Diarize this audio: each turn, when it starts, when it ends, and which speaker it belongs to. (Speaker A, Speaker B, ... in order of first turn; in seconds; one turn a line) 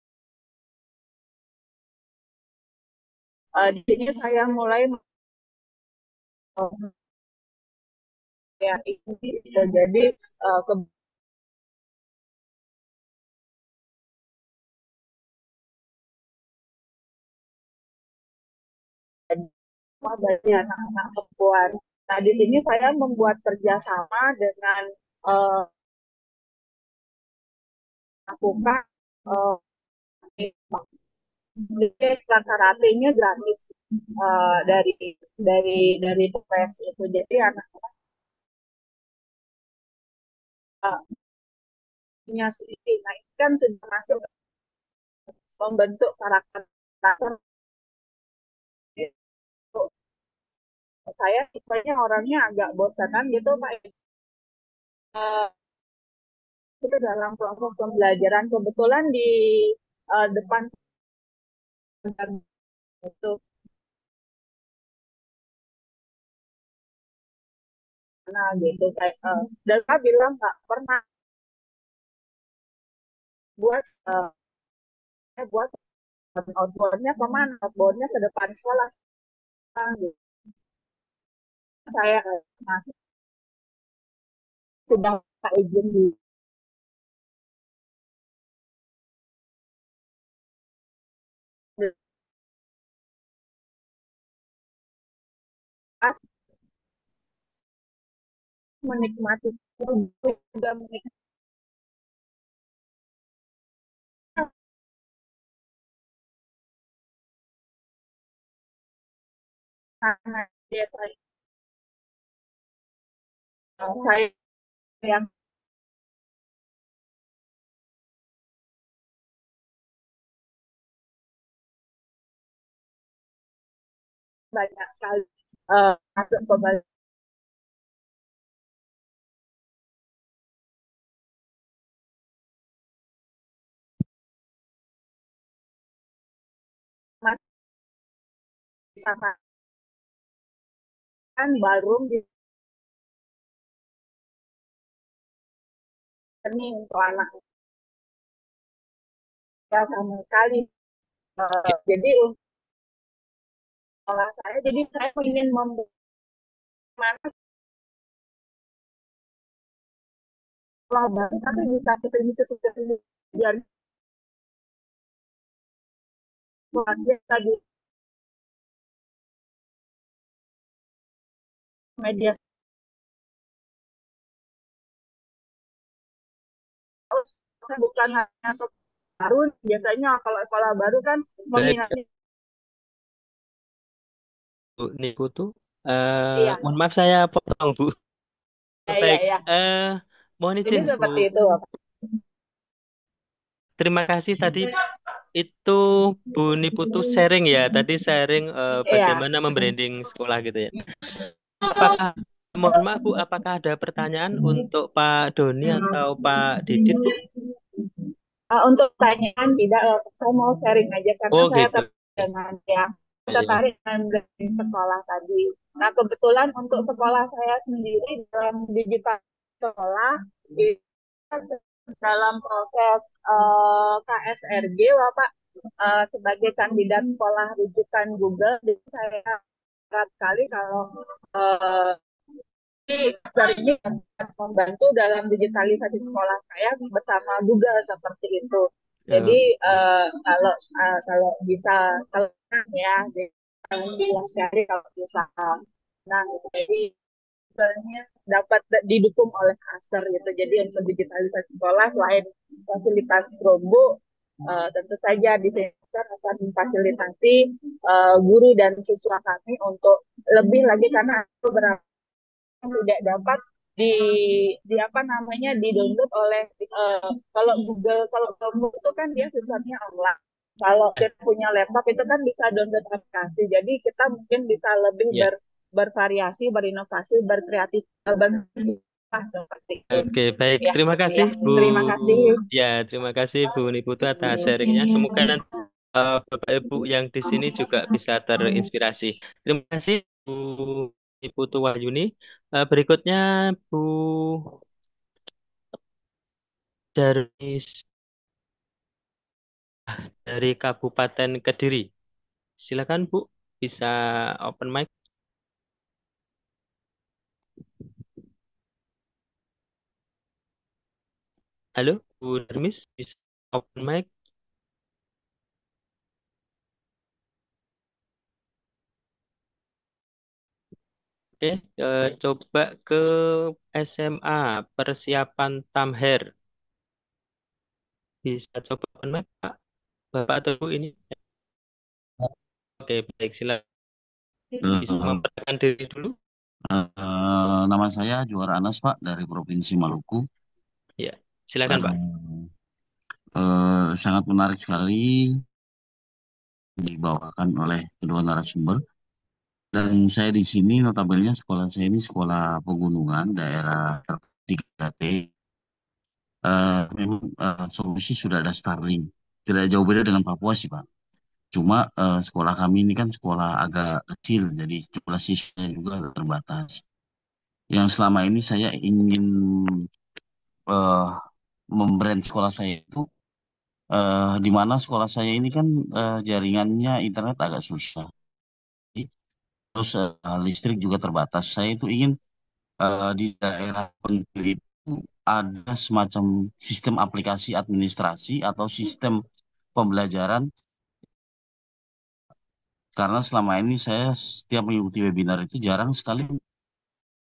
Speaker A: 3.5-5.0
Speaker A: 6.6-6.9
Speaker A: 8.6-10.9
Speaker A: 20.0-25.7
Speaker A: 28.3-29.6
Speaker A: 30.4-30.9
Speaker A: 31.6-33.6
Speaker A: 34.2-37.8
Speaker A: 42.3-44.2
Speaker A: 45.6-47.4
Speaker A: 51.1-53.9
Speaker A: 55.1-55.5
Speaker A: 56.8-60.7
Speaker A: 62.0-62.4
Speaker A: 63.0-63.4
Speaker A: 68.3-71.0
Speaker A: 73.6-74.3
Speaker A: 75.4-75.7
Speaker A: 76.3-78.9
Speaker A: 79.7-80.1
Speaker A: 81.9-82.9
Speaker A: 84.9-86.1
Speaker A: 98.8-101.0
Speaker A: 110.0-111.1
Speaker A: 113.8-114.3
Speaker A: 115.0-115.3
Speaker A: 124.5-126.8
Speaker A: 139.0-139.3
Speaker A: 141.4-142.2
Speaker A: 146.4-147.3
Speaker A: 149.7-150.7
Speaker A: 151.4-152.3
Speaker A: 154.1-155.9
Speaker A: 157.0-157.3
Speaker A: 160.9-163.6
Speaker A: 166.7-167.6
Speaker A: 172.0-172.4
Speaker A: 177.1-178.7
Speaker A: 179.2-182.0
Speaker B: 181.6-181.9
Speaker B: 184.8-187.9
Speaker A: 186.3-186.6
Speaker A: 188.9-189.4
Speaker B: 188.9-191.3
Speaker A: 190.7-192.2
Speaker B: 193.8-194.7
Speaker B: 195.3-200.8
Speaker A: 198.8-199.3
Speaker B: 201.7-207.1
Speaker A: 206.9-207.2
Speaker A: 207.8-220.8
Speaker B: 211.3-212.0
Speaker B: 213.3-213.6
Speaker A: 221.3-232.0
Speaker A: 232.9-246.9
Speaker B: 239.1-239.4
Speaker A: 247.6-261.8
Speaker A: 262.6-282.4
Speaker B: 279.9-285.4
Speaker B: 285.9-292.1
Speaker B: 292.6-294.2
Speaker B: 297.0-297.8
Speaker B: 300.2-301.9
Speaker B: 302.6-304.9
Speaker B: 311.8-314.1
Speaker B: 321.4-326.2
Speaker B: 328.2-329.5
Speaker B: 330.1-331.1
Speaker B: 332.8-333.6
Speaker C: 334.6-335.2
Speaker B: 334.7-336.1
Speaker C: 336.7-340.2
Speaker B: 341.0-341.9
Speaker C: 341.7-342.5
Speaker C: 343.4-345.4
Speaker C: 346.8-348.8
Speaker C: 349.7-355.3
Speaker C: 356.4-360.8
Speaker C: 361.5-366.8
Speaker C: 367.7-369.2
Speaker C: 370.7-371.1
Speaker C: 371.8-373.0
Speaker C: 373.9-378.1
Speaker C: 379.7-382.1
Speaker C: 382.8-389.2
Speaker C: 389.7-390.4
Speaker C: 392.9-396.4